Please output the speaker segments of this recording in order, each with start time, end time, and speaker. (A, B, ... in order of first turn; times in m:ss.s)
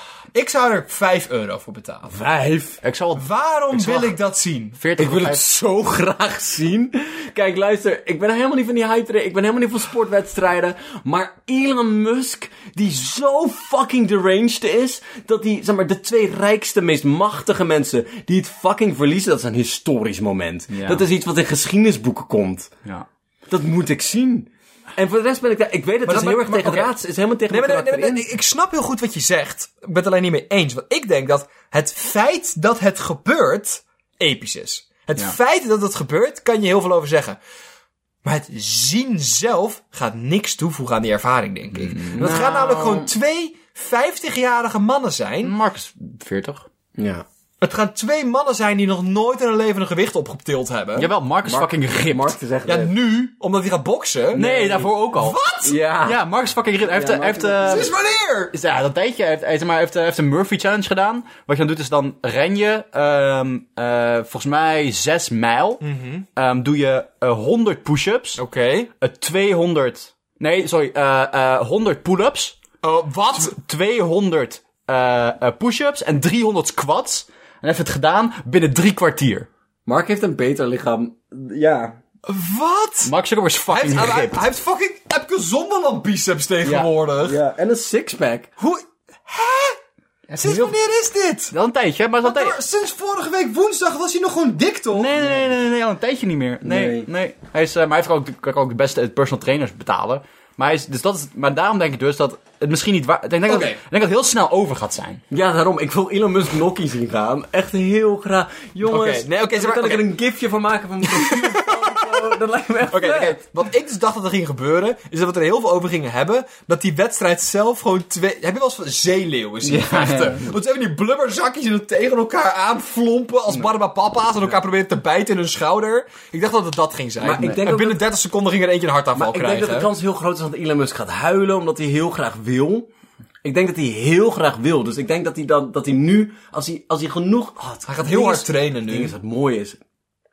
0:00.3-0:02.1 A
0:02.1-0:02.8 B
0:02.8-0:04.2 C
0:03.2-0:04.8 A
0:04.8-0:05.4 C
0:05.0-0:22.7 B
0:20.7-0:21.0 C
0:23.5-0:28.3 B
0:26.0-0:26.9 A
0:27.5-0:37.4 A
0:38.2-0:45.5 A
0:41.7-0:42.3 C
0:42.2-0:43.1 B
0:45.4-0:46.6 C
0:47.0-0:47.2 B
0:47.6-0:51.1 A
0:51.0-0:52.4 C
0:51.4-0:52.9 B
0:52.7-0:54.4 A
0:54.3-0:55.4 C
0:54.3-0:54.9 B
0:55.1-0:55.8 A
0:55.6-0:56.2 B
0:56.0-0:57.9 C
0:56.8-0:57.9 B
0:57.6-0:58.5 A
0:58.5-1:05.8 C
1:05.8-1:06.2 A
1:06.4-1:08.4 C
1:08.4-1:08.9 A
1:09.0-1:12.6 C
1:12.8-1:13.5 A
1:13.3-1:19.5 C
1:19.8-1:22.0 B
1:22.2-1:23.1 A
1:23.0-1:24.4 C
1:23.7-1:27.4 A
1:26.6-1:26.9 C
1:27.2-1:28.5 B
1:28.6-1:29.8 A
1:30.3-1:31.5 A
1:30.4-1:30.7 C
1:31.5-1:32.6 C
1:32.2-1:35.2 A
1:34.9-1:45.2 C
1:36.6-1:37.1 B
1:43.5-1:43.8 A
1:45.3-1:53.4 B
1:48.8-1:50.2 A
1:51.1-1:52.0 A
1:52.9-2:09.9 A
1:59.6-2:00.5 C
2:07.2-2:08.1 B
2:09.1-2:12.9 B
2:13.4-2:19.8 B
2:17.9-2:19.1 A